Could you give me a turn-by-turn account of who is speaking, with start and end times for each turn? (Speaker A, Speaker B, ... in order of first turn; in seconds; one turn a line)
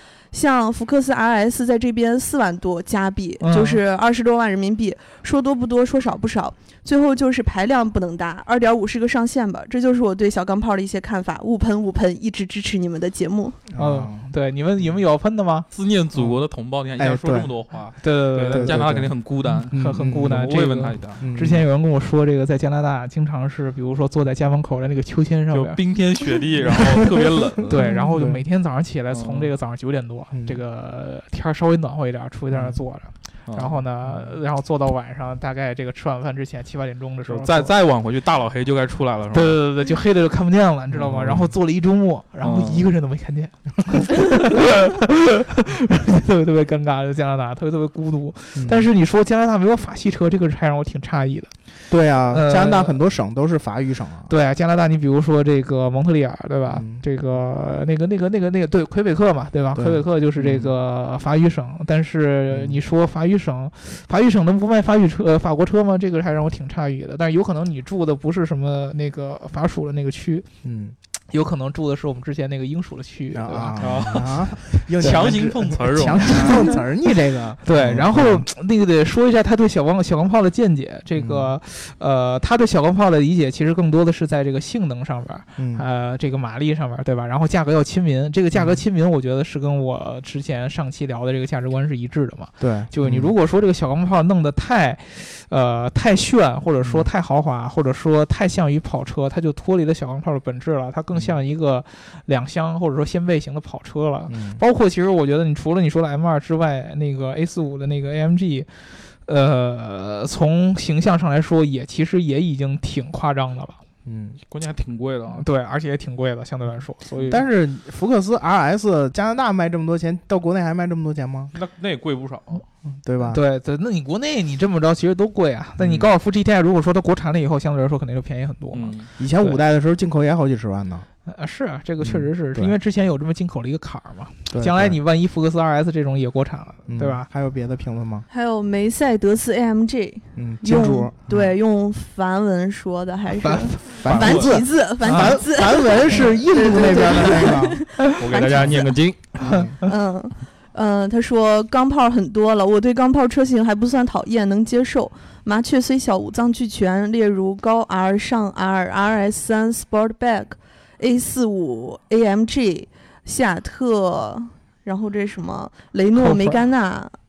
Speaker A: 0.3-13.6
Speaker B: 3.4-3.8
Speaker C: 13.7-14.3
Speaker B: 13.8-15.7
Speaker D: 15.7-21.2
Speaker C: 16.1-16.4
Speaker C: 17.0-17.5
Speaker B: 18.0-18.8
Speaker C: 18.5-19.1
Speaker C: 19.7-20.4
Speaker B: 19.7-25.8
Speaker C: 21.2-21.6
Speaker D: 25.5-27.8
Speaker B: 27.7-37.7
Speaker C: 27.7-28.4
Speaker D: 29.1-29.5
Speaker D: 33.5-33.8
Speaker D: 37.2-39.6
Speaker B: 39.3-51.5
Speaker C: 40.9-41.5
Speaker D: 42.4-42.9
Speaker C: 48.5-48.9
Speaker C: 51.9-54.3
Speaker B: 52.3-53.0
Speaker B: 54.3-70.5
Speaker C: 56.7-57.0
Speaker C: 59.8-60.7
Speaker C: 62.5-62.8
Speaker C: 70.6-70.9
Speaker B: 71.3-74.2
Speaker C: 73.3-78.5
Speaker D: 73.8-76.8
Speaker B: 75.0-75.4
Speaker B: 76.2-108.7
Speaker C: 81.2-81.5
Speaker C: 85.6-85.8
Speaker C: 88.5-88.8
Speaker C: 92.6-93.3
Speaker C: 96.8-97.1
Speaker C: 104.3-104.6
Speaker B: 109.2-113.8
Speaker C: 114.0-114.4
Speaker D: 114.5-115.4
Speaker B: 115.3-117.4
Speaker C: 117.3-121.5
Speaker D: 121.5-122.6
Speaker C: 122.9-123.4
Speaker B: 123.2-129.6
Speaker C: 125.8-126.1
Speaker D: 128.7-129.1
Speaker C: 129.2-131.1
Speaker B: 131.2-137.2
Speaker C: 132.0-132.7
Speaker C: 134.5-135.0
Speaker C: 136.9-138.2
Speaker A: 138.3-148.9
Speaker C: 140.3-141.5
Speaker B: 143.4-143.8
Speaker C: 144.0-147.8
Speaker D: 144.0-144.6
Speaker B: 145.0-145.4
Speaker D: 148.1-149.2
Speaker C: 148.5-149.8
Speaker B: 149.4-149.9
Speaker A: 149.8-167.1
Speaker B: 166.1-166.6